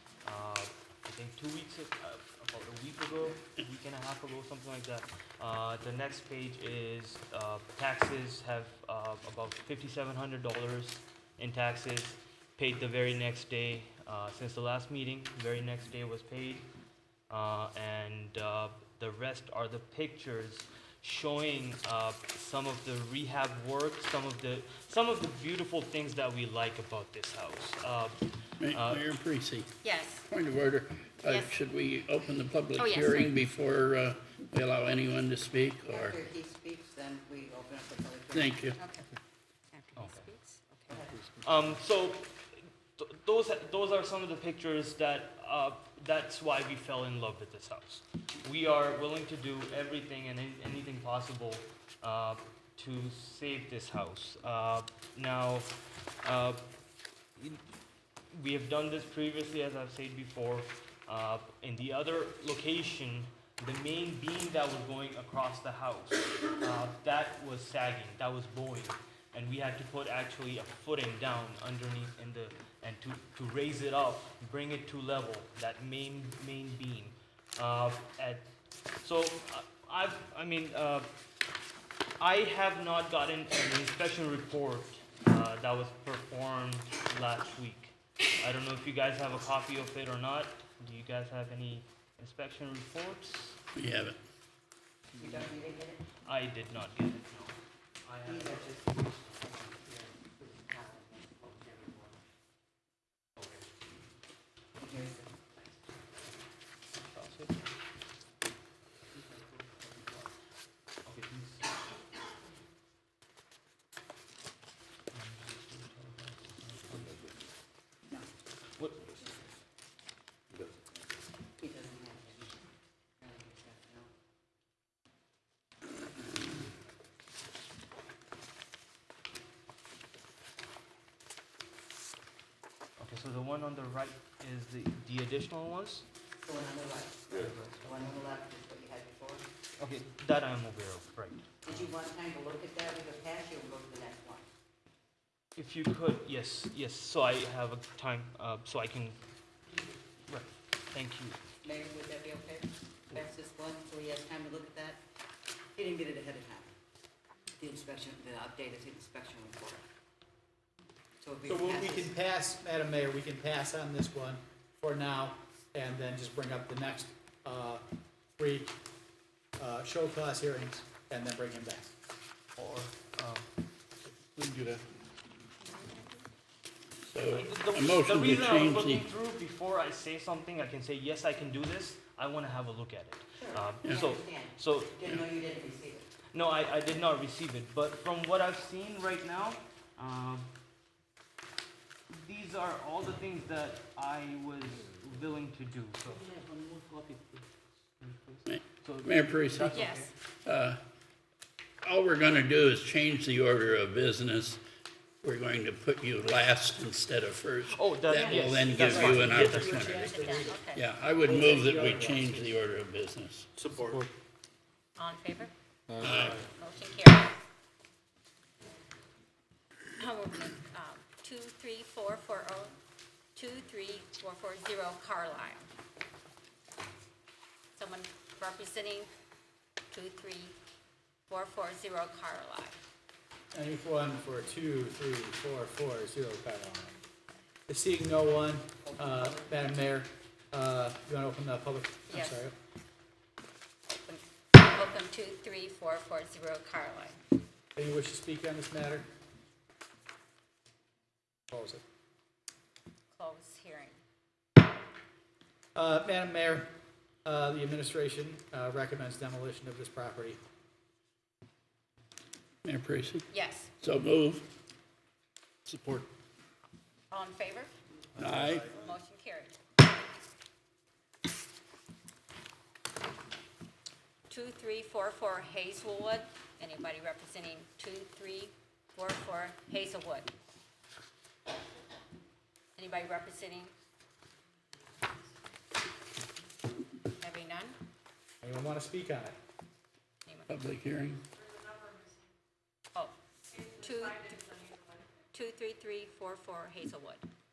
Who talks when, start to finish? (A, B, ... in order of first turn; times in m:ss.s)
0:00.2-0:16.7 A
0:17.3-0:29.0 A
0:28.6-0:29.8 B
0:29.8-0:30.3 C
0:30.3-0:36.2 B
0:31.2-0:31.5 C
0:32.8-0:33.4 C
0:35.9-0:38.6 D
0:38.3-0:38.8 B
0:38.8-0:39.1 C
0:39.7-0:40.9 C
0:40.0-0:40.3 A
0:40.9-0:41.2 D
0:41.4-0:42.4 A
0:43.0-0:56.6 A
0:57.4-0:57.6 A
0:58.3-1:18.5 A
1:19.0-1:21.1 A
1:22.2-1:33.6 A
1:33.8-1:34.2 B
1:35.2-1:36.0 D
1:36.2-1:38.7 A
1:38.2-1:42.0 D
1:44.8-1:45.8 D
1:47.0-1:47.8 A
1:51.1-1:51.8 A
1:55.1-1:57.2 A
1:58.8-1:59.4 A
2:01.6-2:02.6 D
2:03.2-2:04.1 D
2:13.0-2:16.1 A
2:16.4-2:19.5 D
2:17.3-2:18.1 A
2:19.8-2:21.9 A
2:21.6-2:24.4 D
2:25.6-2:29.2 A
2:30.3-2:31.4 A
2:31.6-2:35.0 D
2:35.8-2:36.7 D
2:37.6-2:39.9 D
2:41.2-2:42.1 D
2:41.4-2:47.8 E
2:48.4-2:48.8 E
2:49.6-2:51.9 E
2:52.6-2:53.5 A
2:54.4-2:54.8 E
2:55.6-2:56.2 C
2:57.0-2:59.1 B
2:57.3-3:05.0 A
3:03.4-3:06.1 D
3:06.3-3:10.5 A
3:12.1-3:17.4 A
3:18.0-3:20.1 A
3:18.5-3:20.8 B
3:19.7-3:20.1 C
3:21.8-3:24.6 B
3:25.2-3:30.1 B
3:27.7-3:29.8 A
3:28.1-3:30.9 C
3:28.9-3:30.6 E
3:30.7-3:33.5 B
3:31.3-3:32.1 E
3:32.0-3:32.3 D
3:33.6-3:34.1 E
3:35.0-3:35.5 C
3:36.0-3:36.4 E
3:36.0-3:36.4 B
3:36.4-3:37.3 C
3:40.0-3:42.8 C
3:43.4-3:45.7 C
3:47.8-3:49.1 C
3:49.9-3:50.6 C
3:51.3-3:52.8 C
3:53.5-3:57.0 E
3:57.7-4:02.5 E
3:58.8-3:59.8 D
4:02.1-4:02.5 C
4:03.9-4:07.2 C
4:07.8-4:09.1 E
4:11.5-4:11.8 E
4:13.1-4:14.0 C
4:15.8-4:16.7 E
4:17.2-4:20.4 E
4:22.6-4:24.5 B
4:23.3-4:23.7 C
4:25.7-4:26.0 E
4:27.1-4:27.7 C
4:28.2-4:28.7 B
4:28.7-4:29.6 C
4:34.3-4:40.3 C
4:42.8-4:43.7 C
4:47.2-4:47.8 C
4:48.4-4:49.4 E
4:50.2-4:50.7 C
4:50.5-4:51.2 B
4:53.7-4:54.5 C
4:55.3-4:57.2 C